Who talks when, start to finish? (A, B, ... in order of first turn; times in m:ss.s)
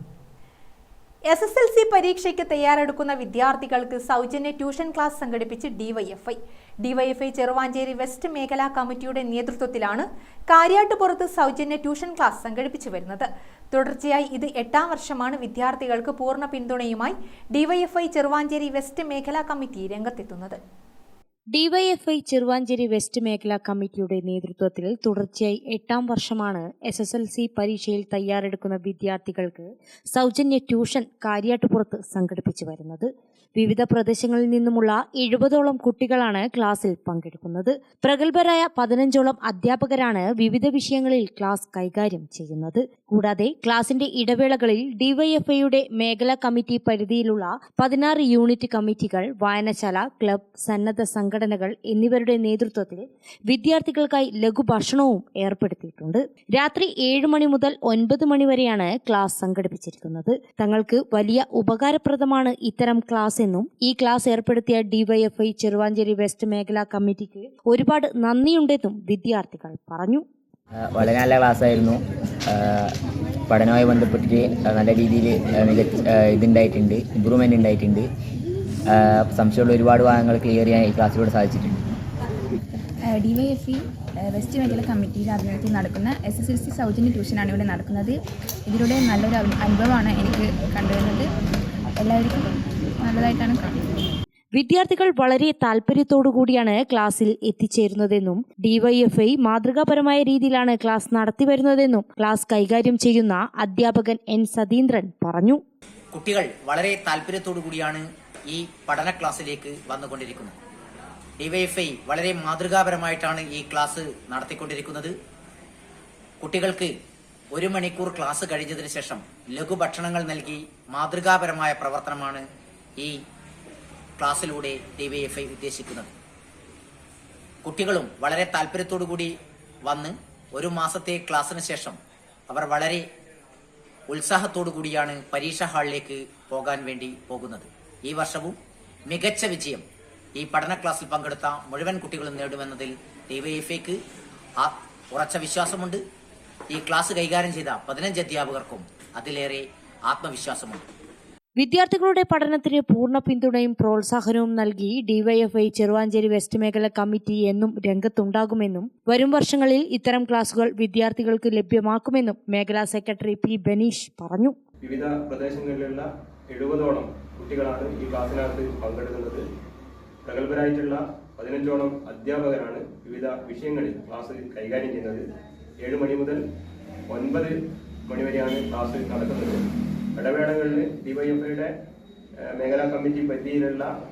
0:01.3-0:20.6 A
0:21.5-1:10.2 B
1:10.8-1:12.9 C
1:13.5-1:18.1 C
1:18.9-1:21.8 C
1:22.7-1:28.1 D
1:28.7-1:31.2 D
1:32.0-1:33.8 D
1:34.5-1:45.6 B
1:46.1-1:50.5 E
1:51.4-1:55.1 E
1:56.4-1:56.9 E
1:57.5-2:02.4 E
2:04.2-2:06.1 E
2:07.6-2:09.3 E
2:09.8-2:12.0 E
2:12.5-2:13.0 E
2:14.1-2:18.6 E
2:19.1-2:19.8 E
2:20.4-2:24.0 E
2:24.6-2:26.0 E
2:26.7-2:30.8 E
2:31.6-2:44.5 B
2:44.8-2:49.4 F
2:50.2-2:55.2 F
2:55.8-2:56.4 F
2:57.1-2:57.5 F
2:58.1-2:59.6 F
3:00.2-3:01.7 F
3:02.4-3:03.9 F